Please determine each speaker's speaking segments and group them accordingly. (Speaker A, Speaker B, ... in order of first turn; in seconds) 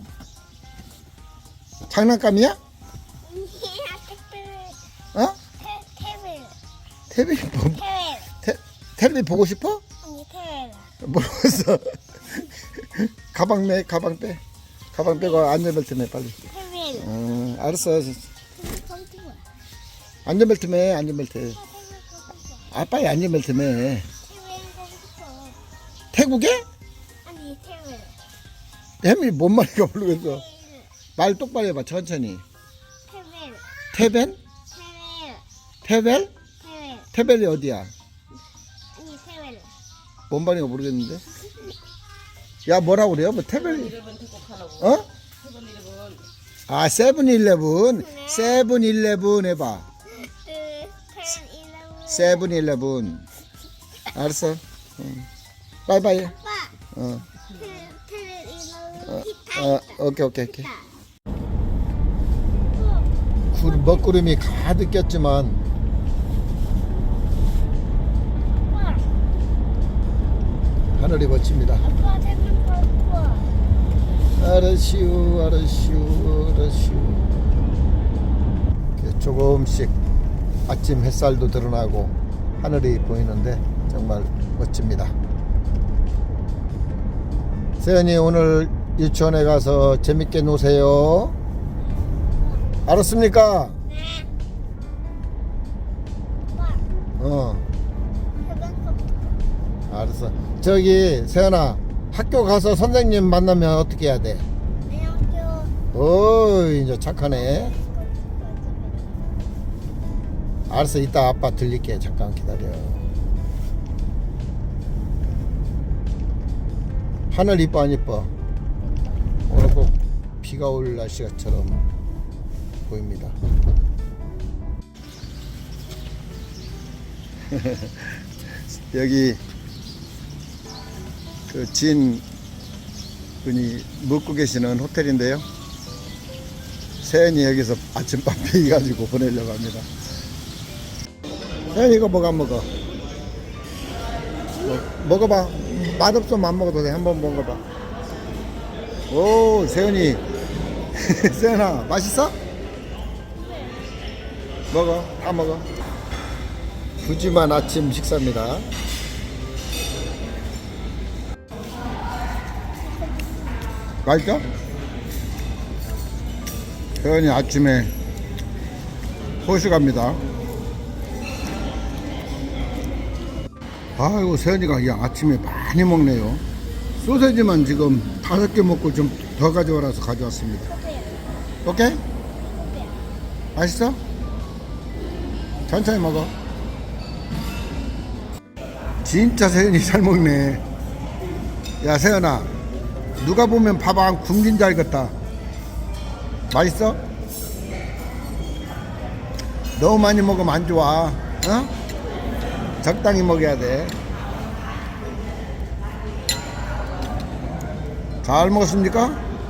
Speaker A: 1.9-2.6, 7.1-7.8, 8.4-9.8, 11.0-14.4, 14.9-16.4, 17.0-18.3, 20.2-21.6, 22.7-24.1, 26.1-26.7, 29.0-30.4, 31.2-32.4, 33.9-34.4, 35.8-36.3, 37.1-37.9, 40.3-41.2, 42.7-44.0, 44.8-45.1, 46.7-49.9, 52.1-53.3, 54.1-55.3, 55.9-56.3, 56.9-57.3, 59.0-60.7, 63.5-65.6, 71.0-71.8, 74.4-77.5, 79.0-80.0, 80.7-85.2, 87.8-91.4, 92.8-93.8, 97.2-97.7, 99.9-104.5, 105.9-107.8, 110.7-113.1, 117.3-118.3, 119.5-121.9, 122.8-123.4, 127.5-129.4, 131.5-132.2, 133.4-135.5, 137.0-139.9, 141.7-142.7, 144.6-147.6, 149.1-150.3, 150.9-152.4, 154.7-155.7, 157.0-158.7, 164.0-164.5, 167.0-167.9, 169.4-170.2, 174.0-176.4, 177.0-180.7, 181.6-182.0, 183.5-184.0, 185.7-186.3, 189.0-190.6, 191.8-192.5, 193.2-195.2, 196.5-197.0, 199.8-201.7, 202.8-204.0, 208.2-209.2
Speaker B: 3.2-4.8, 5.6-6.6, 7.7-8.3, 10.0-10.9, 15.0-15.6, 16.5-17.1, 18.6-19.4, 21.5-22.7, 24.2-25.6, 27.2-28.1, 30.1-30.9, 33.1-33.6, 34.7-35.5, 36.6-37.1, 39.0-39.7, 48.0-48.6, 50.1-52.5, 56.2-56.8, 57.5-60.0, 60.6-60.9, 62.7-64.5, 68.5-69.1, 71.8-73.5, 91.9-92.7, 93.9-94.3, 96.5-96.9, 98.4-99.1, 104.8-105.7, 107.3-109.3, 153.3-153.9, 162.8-164.0, 180.7-181.3, 182.3-183.0